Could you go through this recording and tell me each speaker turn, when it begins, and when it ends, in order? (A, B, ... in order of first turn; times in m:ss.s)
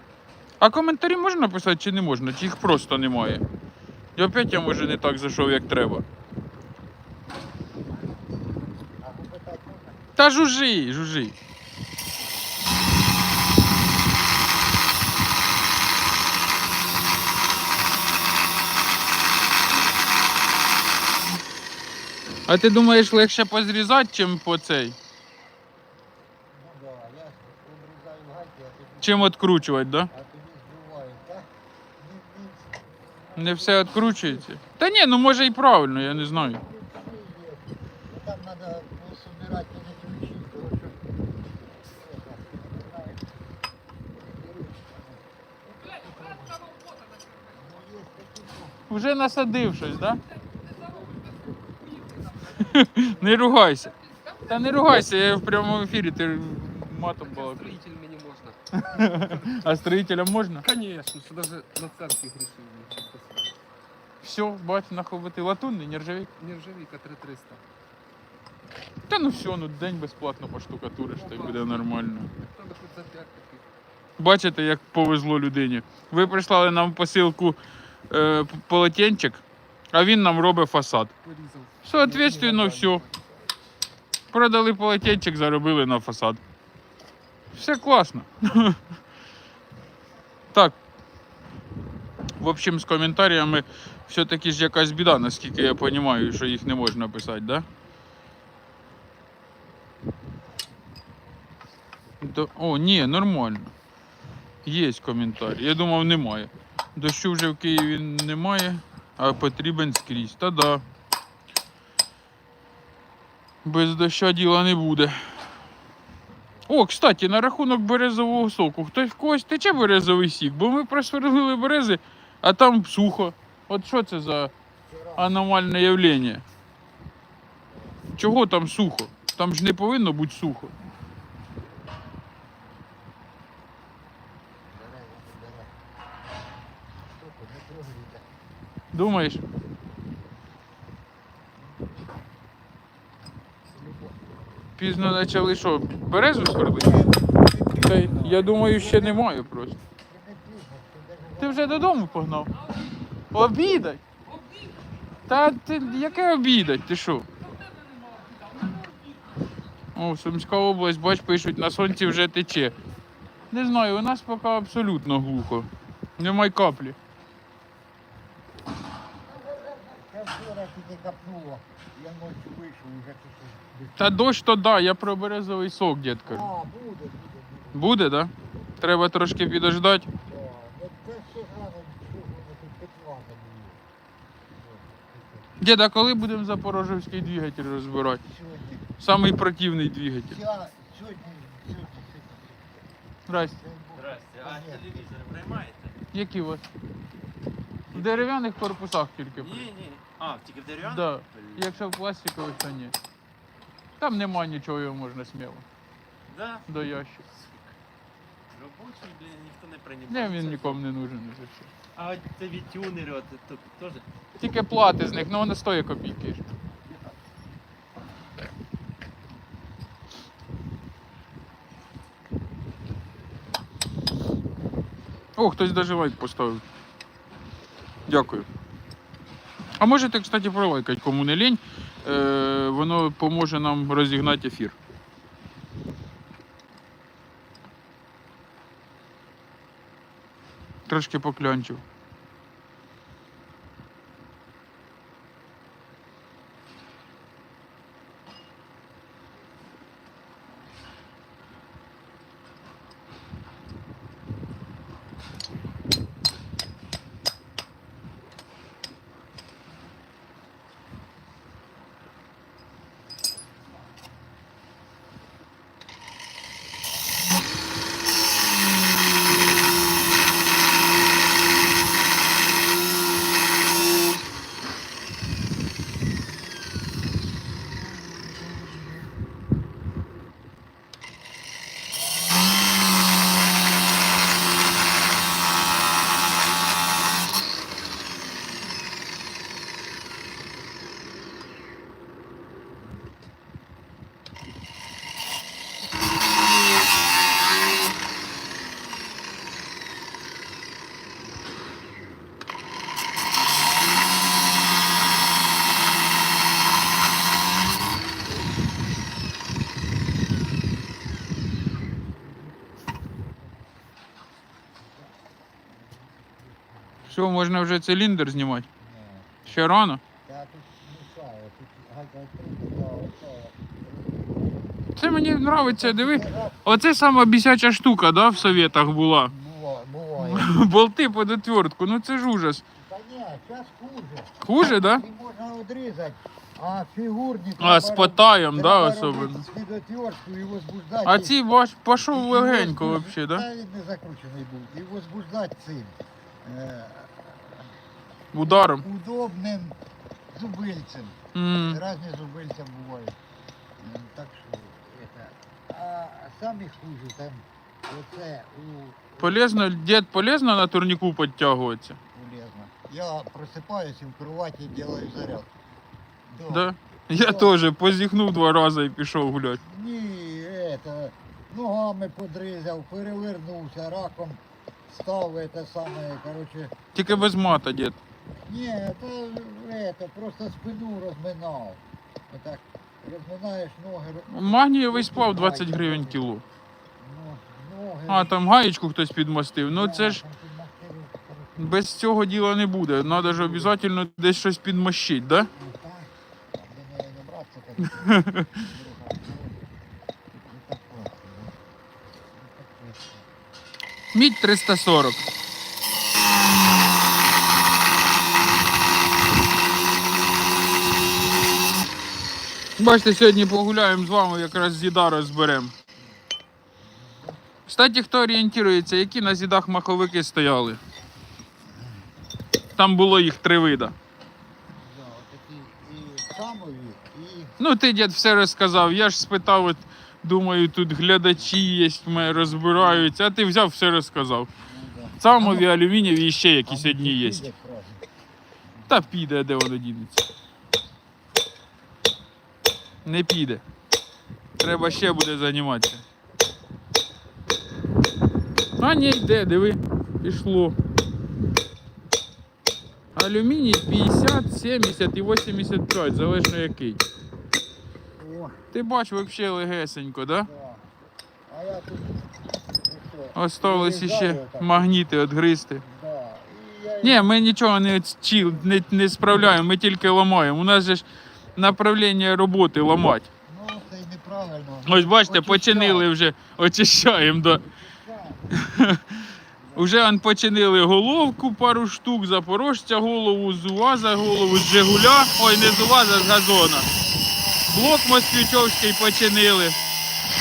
0:00.6-0:03.4 A
0:04.2-0:06.0 A
0:07.9-0:10.1 B
0:10.2-0:11.3 A
0:22.5-0:25.0 A
0:26.5-0:29.4 B
0:29.0-0:30.1 A
0:30.1-0:31.4 B
0:32.0-0:34.6 B
0:33.4-0:36.6 A
0:36.0-0:41.0 B
0:41.8-0:43.2 B
0:44.2-0:46.7 B
0:47.5-0:48.9 B
0:48.9-0:50.2 A
0:52.4-0:53.4 B
0:52.6-0:57.8 A
0:57.2-0:59.7 C
0:58.7-1:00.6 A
1:00.6-1:03.6 C
1:04.2-1:06.3 A
1:06.4-1:07.6 C
1:09.1-1:12.3 A
1:11.1-1:13.6 C
1:14.2-1:17.6 A
1:18.1-1:19.4 A
1:19.9-1:21.1 A
1:21.2-1:23.5 C
1:21.8-1:23.0 A
1:24.3-1:26.4 A
1:27.5-1:28.8 A
1:32.4-1:37.6 A
1:42.2-1:43.7 A
1:44.6-1:50.8 A
1:53.6-1:55.1 A
1:56.7-2:04.5 A
2:04.8-2:05.4 B
2:05.2-2:06.4 A
2:08.2-2:10.7 A
2:14.7-2:15.7 B
2:17.1-2:18.2 B
2:18.9-2:19.4 A
2:23.7-2:24.2 B
2:24.8-2:27.1 A
2:26.6-2:29.4 B
2:27.8-2:29.8 A
2:30.1-2:32.0 B
2:31.4-2:32.7 A
2:33.3-2:34.0 A
2:35.2-2:37.3 A
2:39.9-2:42.8 A
2:43.5-2:47.0 A
2:49.3-2:54.3 B
2:54.0-2:56.5 A
2:56.2-2:58.5 B
2:57.7-3:00.1 A
3:00.1-3:03.8 B
3:04.6-3:05.6 B
3:05.6-3:08.2 A
3:08.2-3:09.0 B
3:09.0-3:10.4 A
3:10.3-3:15.5 B
3:13.3-3:13.5 A
3:14.0-3:16.0 D
3:16.1-3:16.6 A
3:17.9-3:18.3 D
3:17.9-3:19.7 A
3:19.3-3:22.0 D
3:20.8-3:22.9 A
3:24.0-3:25.6 A
3:26.3-3:26.6 D
3:26.7-3:27.2 A
3:27.3-3:27.6 D
3:28.5-3:30.8 D
3:30.1-3:31.7 A
3:31.9-3:34.0 D
3:34.4-3:36.4 A
3:45.4-3:46.6 A
3:48.1-3:48.4 A
3:49.8-3:54.7 A
4:00.9-4:01.8 A
5:15.8-5:17.1 B
5:17.1-5:18.6 A
5:18.8-5:24.5 B
5:19.5-5:20.0 A
5:25.0-5:29.3 A
5:25.2-5:26.8 B
5:29.2-5:30.5 B
5:30.2-5:32.6 A
5:32.7-5:41.4 B
5:34.4-5:35.0 A
5:37.6-5:39.4 A
5:41.0-5:43.4 A
5:42.0-5:47.7 B
5:48.3-5:48.8 A
5:48.4-5:49.8 B
5:50.3-5:53.2 B
5:51.3-5:51.8 A
5:53.8-5:59.7 B
5:59.2-6:02.0 A
6:02.1-6:05.5 B
6:06.3-6:07.7 B
6:06.5-6:09.6 A
6:09.6-6:17.3 B
6:16.9-6:18.0 A
6:18.4-6:26.3 B
6:24.3-6:26.4 A
6:27.0-6:28.4 B
6:28.1-6:30.2 A
6:29.6-6:31.8 B
6:31.6-6:35.5 A
6:33.0-6:33.8 B
6:35.5-6:39.6 B
6:37.9-6:38.5 A
6:40.3-6:41.6 B
6:42.3-6:43.2 B
6:44.1-6:45.2 A
6:52.8-6:55.7 A
6:56.8-6:57.5 B
6:57.7-7:00.8 A
7:02.8-7:03.9 A
7:04.7-7:07.5 B
7:07.6-7:14.5 A
7:12.1-7:13.1 B
7:14.6-7:15.7 B
7:15.2-7:17.5 A
7:16.6-7:18.0 B
7:18.7-7:19.1 B
7:18.9-7:20.2 A
7:23.0-7:23.6 A
7:24.6-7:26.0 A
7:24.7-7:25.0 B
7:28.8-7:30.8 A
7:33.1-7:37.0 A
7:38.2-7:38.6 B
7:38.7-7:40.5 A
7:40.4-7:40.9 B
7:41.5-7:45.1 B
7:43.3-7:45.8 A
7:45.8-7:47.4 B
7:47.0-7:51.0 A
7:48.3-7:48.7 B
7:51.6-7:53.3 A
7:53.4-7:56.1 B
7:54.8-7:57.6 A
7:57.6-7:58.9 B
7:58.5-7:59.2 A
7:59.6-8:00.0 B
7:59.7-8:06.9 A
8:06.9-8:07.9 B
8:07.7-8:09.8 A